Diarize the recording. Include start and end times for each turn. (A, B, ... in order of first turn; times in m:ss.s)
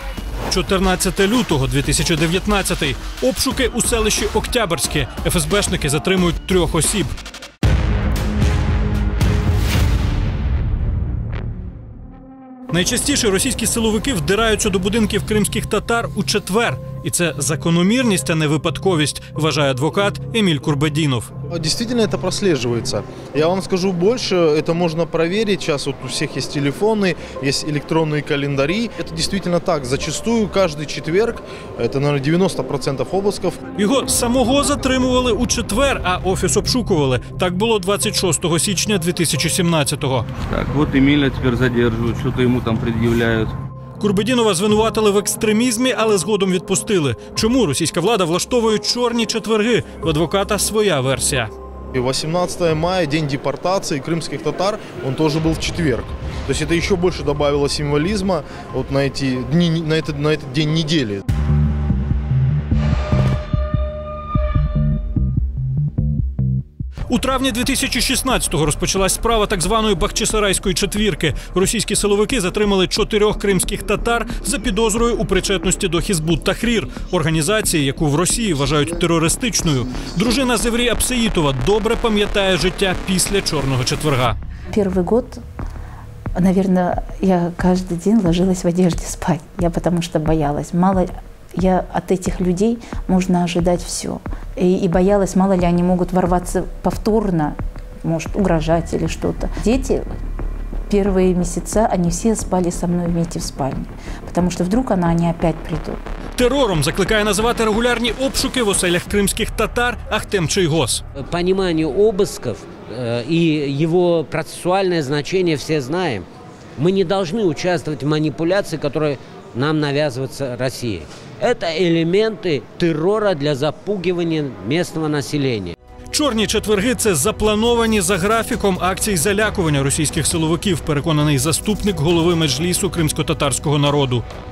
0:00.5-0:07.1 A
0:12.7-0:21.3 A
0:21.5-0:33.6 B
0:33.8-0:40.3 A
0:40.5-0:43.5 C
0:44.0-0:51.5 A
0:51.9-1:01.2 B
1:07.1-1:24.4 A
1:24.7-1:25.4 D
1:26.4-1:40.1 D
1:40.9-1:46.0 D
1:46.4-1:51.0 A
1:51.2-1:56.2 E
1:56.8-2:05.7 E
2:06.1-2:14.2 A